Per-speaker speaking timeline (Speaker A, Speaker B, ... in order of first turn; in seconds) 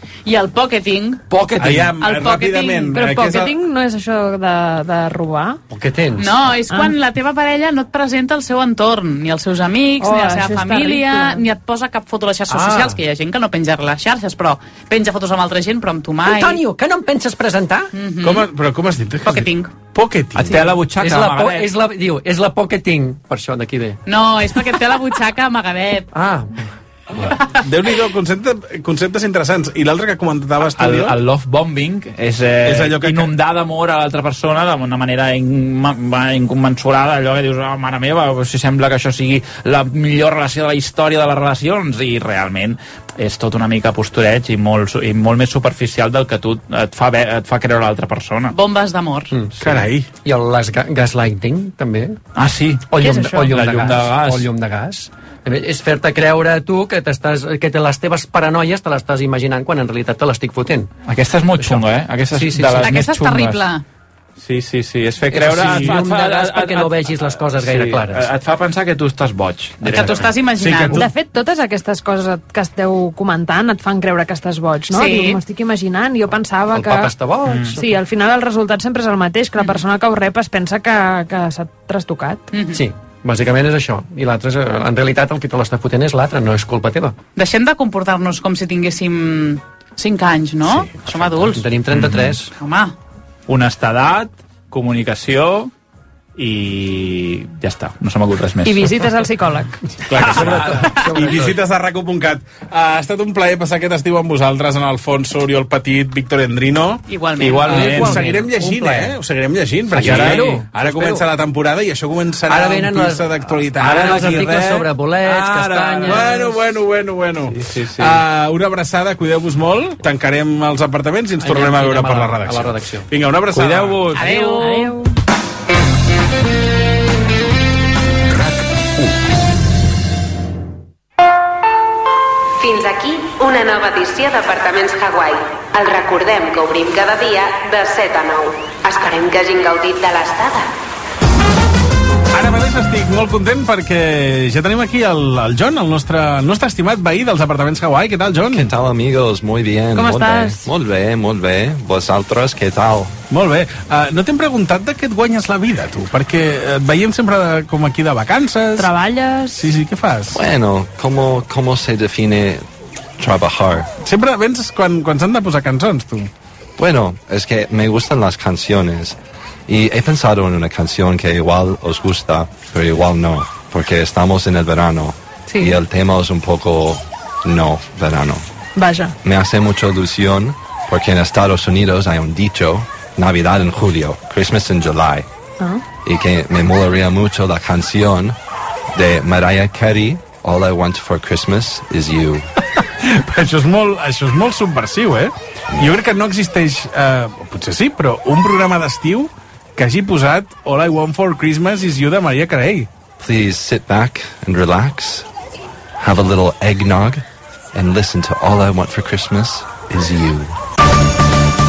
Speaker A: 0.2-1.2, 2.0-3.1, 6.2-16.6, 17.9-18.5, 19.2-19.8, 24.1-26.1, 48.5-49.3, 62.8-63.8, 69.8-71.1, 74.9-75.4, 82.5-82.8, 87.3-91.7, 92.6-93.0, 107.1-107.9, 124.1-125.0
Speaker B: 1.3-1.9, 20.4-21.7, 30.8-48.5, 52.3-54.5, 61.0-63.6, 64.4-70.3, 77.5-77.8, 91.9-92.4, 93.5-95.7, 96.4-99.0, 100.1-101.3, 107.4-108.3, 109.9-111.2, 113.8-116.5, 117.5-118.2, 123.5-124.3
Speaker C: 1.6-3.5, 18.2-20.7, 27.6-31.2, 32.6-33.3, 49.6-50.1, 65.6-65.9, 70.5-71.1, 100.1-107.0, 107.7-114.8, 116.0-124.2, 142.3-148.7, 153.3-158.9, 159.5-160.4, 164.0-166.3, 192.7-202.9
Speaker D: 3.0-5.6, 6.7-6.9, 10.0-11.4, 70.9-77.1, 77.7-82.5, 98.6-99.8, 124.2-125.1, 149.9-150.7, 158.8-159.7, 175.5-175.8, 178.8-179.1
Speaker E: 5.7-6.4, 12.5-13.0, 16.2-17.9, 21.0-24.0, 26.1-27.3, 49.3-52.2, 52.9-60.9, 61.6-63.0, 65.3-68.2, 69.9-70.2, 76.7-77.9, 82.7-87.2, 91.4-92.5, 100.2-101.6, 107.7-109.2, 109.9-111.2, 112.5-116.6, 121.4-123.1
Speaker F: 132.6-140.7
Speaker G: 148.5-153.1, 160.3-162.6, 163.2-163.9, 166.8-169.2, 169.7-178.4, 179.2-185.3, 186.0-188.3, 188.9-192.5, 203.2-205.3, 206.0-207.2, 207.7-210.6